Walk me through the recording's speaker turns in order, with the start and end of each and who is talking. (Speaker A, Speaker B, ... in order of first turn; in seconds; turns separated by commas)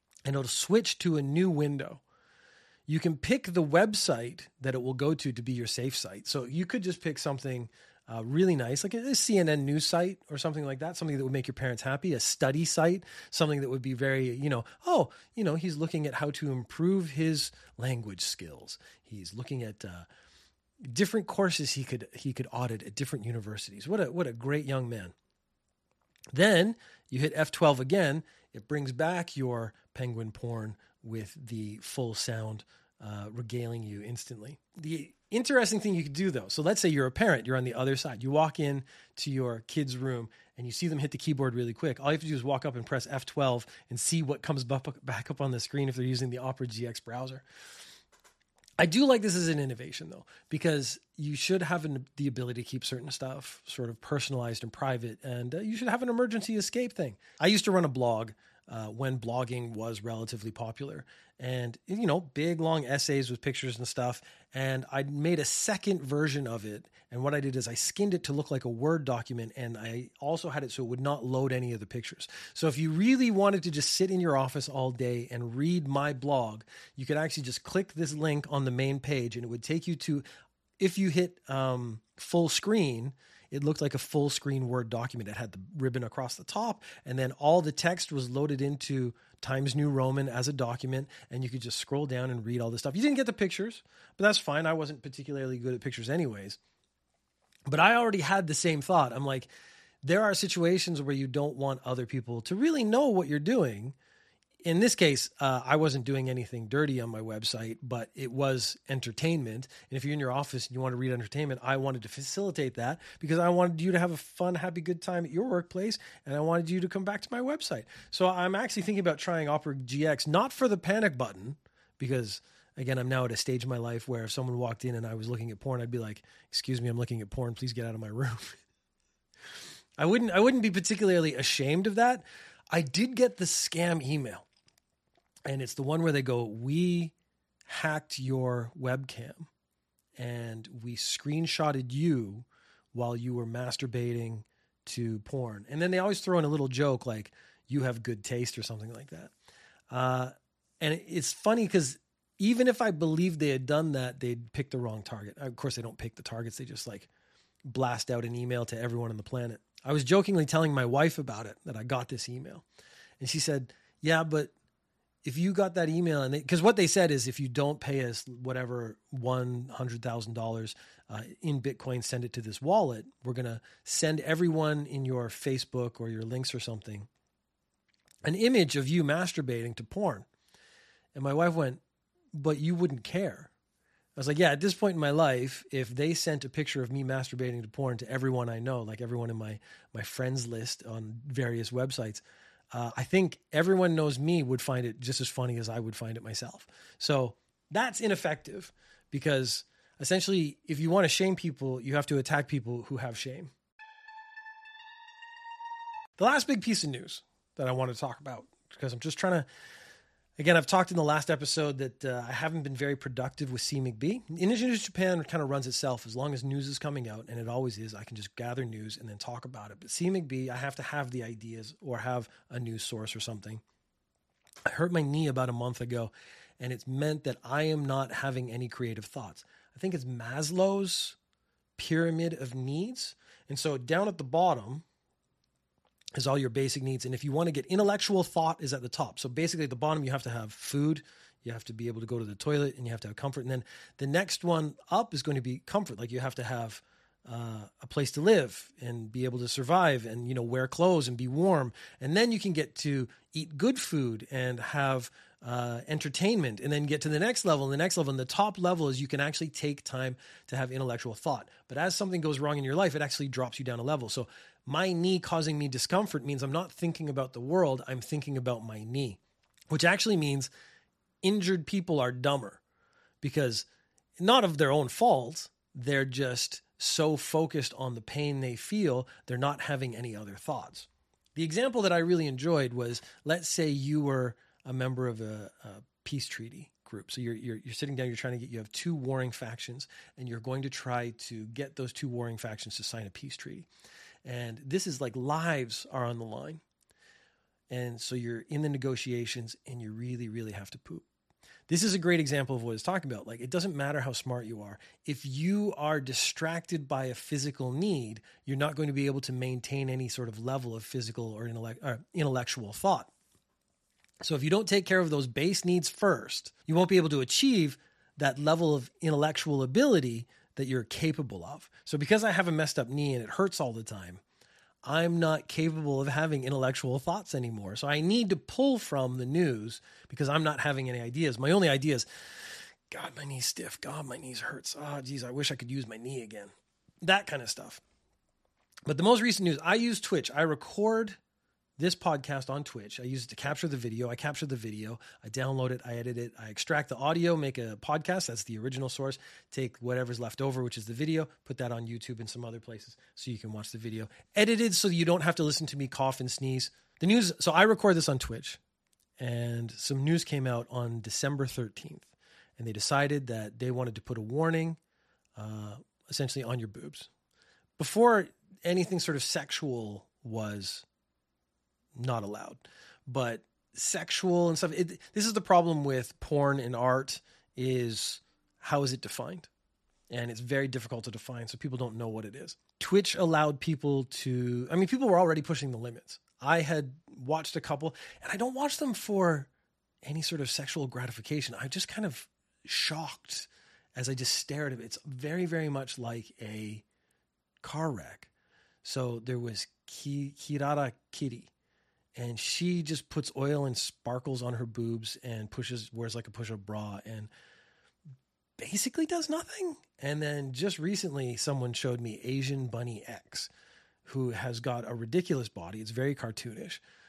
Speaker A: 0.2-2.0, Speaker A: 2.9-20.1, Speaker A: 20.9-25.1, Speaker A: 26.3-47.4, Speaker A: 48.8-80.2, Speaker A: 80.8-96.6, Speaker A: 97.7-99.5, Speaker A: 100.0-104.0, Speaker A: 104.6-128.6, Speaker A: 130.0-134.4, Speaker A: 135.4-137.1, Speaker A: 137.7-139.5, Speaker A: 140.2-149.3, Speaker A: 149.9-157.1, Speaker A: 157.7-162.6, Speaker A: 163.2-164.5, Speaker A: 165.2-177.1, Speaker A: 178.2-180.3, Speaker A: 181.1-181.8, Speaker A: 182.3-183.5, Speaker A: 184.2-203.5, Speaker A: 206.2-209.4, Speaker A: 210.4-223.6, Speaker A: 224.7-231.2, Speaker A: 231.8-234.8, Speaker A: 236.2-269.2, Speaker A: 269.7-270.5, Speaker A: 271.2-272.6, Speaker A: 273.2-273.6, Speaker A: 274.2-293.7, Speaker A: 294.2-296.6, Speaker A: 297.7-301.0, Speaker A: 301.7-313.1, Speaker A: 314.2-324.2, Speaker A: 324.8-332.1, Speaker A: 332.9-337.8, Speaker A: 338.9-341.2, Speaker A: 341.8-358.6, Speaker A: 359.2-364.8, Speaker A: 365.4-367.1, Speaker A: 367.8-370.9, Speaker A: 371.9-379.5, Speaker A: 380.1-389.5, Speaker A: 390.0-396.8, Speaker A: 397.6-398.3, Speaker A: 398.8-401.5, Speaker A: 402.1-407.3, Speaker A: 408.6-413.5, Speaker A: 414.0-416.8